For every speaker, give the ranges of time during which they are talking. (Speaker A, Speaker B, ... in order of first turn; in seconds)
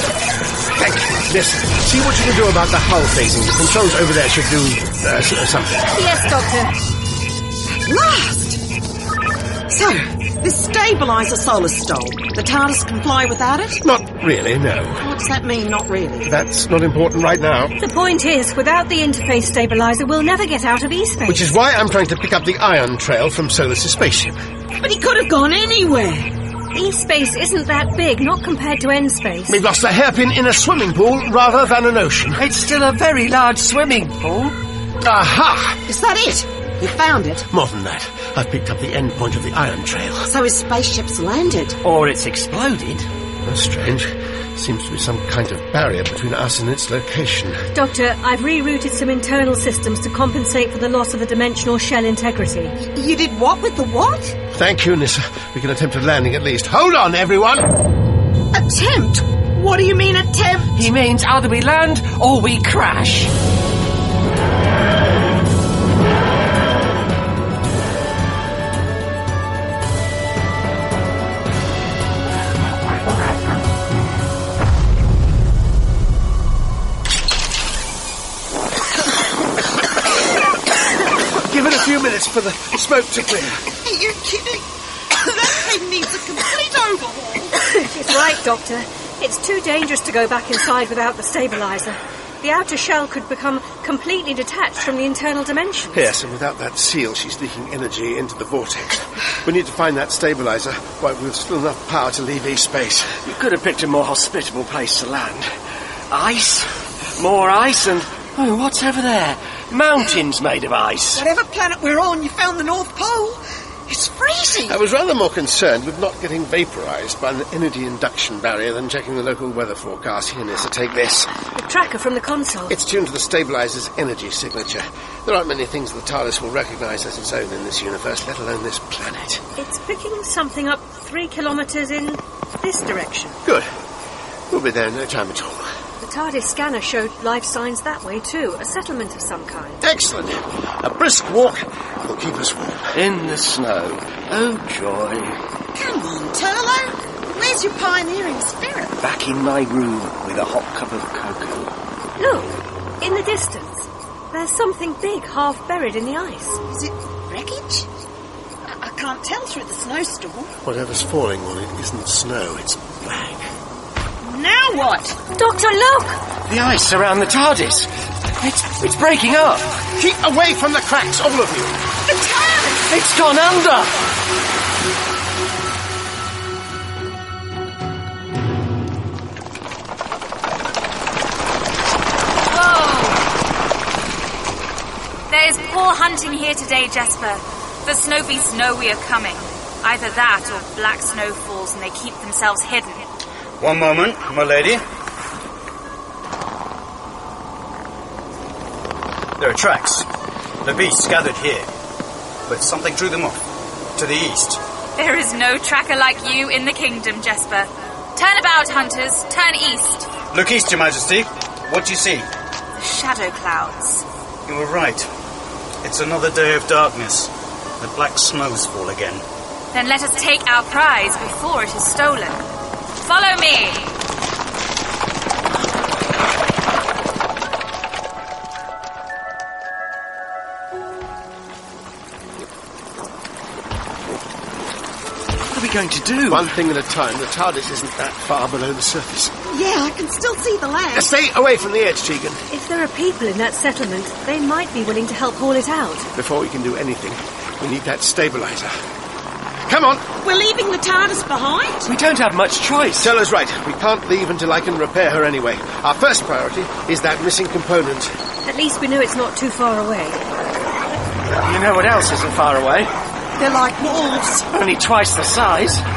Speaker A: 0.7-5.9, 13.8-15.0, 16.2-17.7, 21.3-24.4, 29.5-32.4, 35.0-35.8, 37.5-40.3, 43.4-47.6, 54.5-57.8, 81.4-83.6, 95.9-103.2, 114.7-121.3, 122.7-129.4, 133.4-133.7, 134.5-135.7, 139.8-143.0, 160.6-163.5, 169.9-171.7, 236.3-239.3, 240.9-242.4, 246.2-248.7, 249.7-250.1, 253.0-258.1
Speaker B: 5.9-6.7, 17.8-21.5, 26.7-29.6, 47.7-52.8, 87.7-96.0, 121.5-122.8, 129.6-133.4, 136.0-139.8, 152.2-156.6, 165.3-166.2, 242.5-246.1, 258.4-260.2
Speaker C: 7.8-8.6, 9.7-13.8, 15.0-16.3, 24.8-26.3, 35.9-37.5, 40.3-41.8, 52.8-54.4, 58.5-60.8, 83.8-87.5, 111.2-114.8, 145.7-148.9, 156.7-157.9, 158.7-160.5, 164.2-165.2, 172.1-172.8, 239.5-241.1, 250.2-251.9, 263.4-264.5
Speaker D: 32.4-34.6, 41.8-43.1, 60.7-63.3, 103.2-105.5, 106.1-111.2, 142.9-145.4, 149.0-151.7, 166.4-169.8, 172.8-174.0, 235.5-236.5, 251.8-253.1, 261.4-262.9, 264.5-265.9
Speaker E: 182.5-183.2, 185.3-193.0, 205.0-210.1, 212.8-214.0, 219.7-222.5, 223.0-223.9
Speaker F: 193.6-194.8, 199.4-200.1, 200.6-201.7, 202.5-203.4, 203.9-204.6, 210.3-212.3, 214.5-215.1, 215.8-219.2